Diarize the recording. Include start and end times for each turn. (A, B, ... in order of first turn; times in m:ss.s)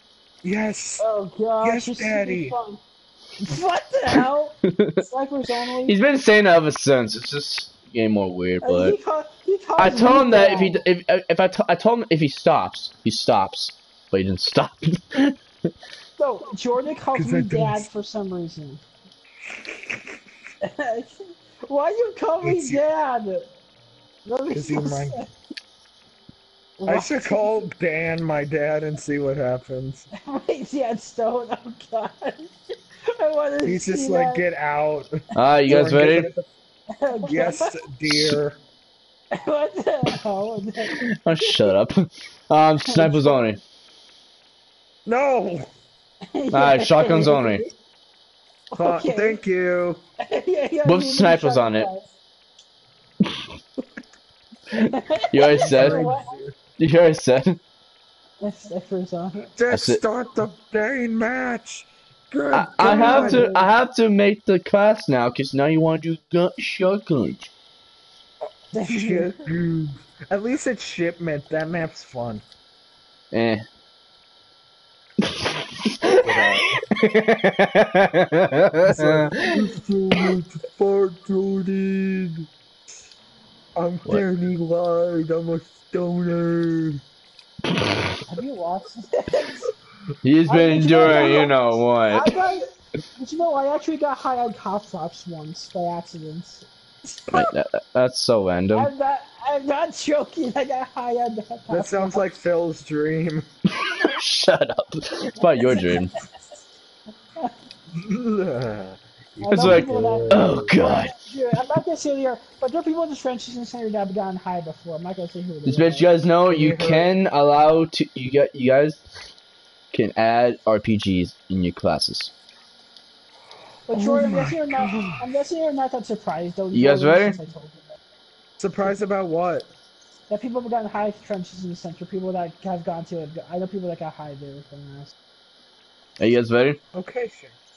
0:00.4-0:01.1 A
0:01.0-0:02.8 B
0:01.6-0:02.6 A
0:03.4-0:06.0 B
0:04.7-0:05.0 C
0:05.8-0:09.0 C
0:08.6-0:10.8 B
0:09.8-0:15.7 C
0:16.2-0:18.8 B
0:17.1-0:17.9 A
0:20.6-0:23.5 B
0:22.4-0:22.8 A
0:24.2-0:25.3 B
0:24.5-0:25.2 A
0:26.8-0:27.5 B
0:26.8-0:30.1 A
0:30.2-0:32.5 B
0:33.2-0:34.4 B
0:33.6-0:36.4 A
0:35.3-0:36.3 C
0:37.0-0:37.8 B
0:37.2-0:38.6 A
0:39.4-0:41.7 B
0:40.8-0:43.6 C
0:42.8-0:43.5 B
0:45.0-0:45.7 A
0:46.3-0:47.7 B
0:46.5-0:47.6 C
0:48.7-0:49.4 B
0:48.8-0:50.0 A
0:50.2-0:52.0 B
0:50.8-0:51.9 C
0:54.7-0:56.2 B
0:55.3-0:56.2 C
0:55.4-0:56.5 A
0:56.8-0:57.6 C
0:58.4-0:59.5 B
0:59.5-1:03.6 A
0:59.7-1:00.0 C
1:02.5-1:07.5 C
1:02.8-1:03.6 B
1:08.7-1:09.4 B
1:08.8-1:12.4 A
1:13.3-1:13.6 C
1:15.2-1:19.7 C
1:16.2-1:16.7 A
1:18.8-1:22.5 A
1:23.8-1:27.0 A
1:28.3-1:29.6 B
1:30.2-1:32.4 C
1:30.5-1:32.6 B
1:31.0-1:31.5 A
1:33.2-1:37.5 B
1:37.3-1:38.9 C
1:38.8-1:42.2 B
1:41.7-1:43.5 A
1:43.7-1:46.1 C
1:45.5-1:46.1 B
1:48.0-1:50.9 A
1:49.4-1:56.1 B
1:49.5-1:51.2 C
1:55.6-1:59.0 C
1:56.5-1:57.1 A
1:59.9-2:02.3 C
2:03.9-2:05.2 A
2:03.9-2:07.8 B
2:06.7-2:07.4 C
2:08.6-2:09.7 A
2:10.3-2:15.1 B
2:16.2-2:16.8 C
2:16.9-2:17.5 A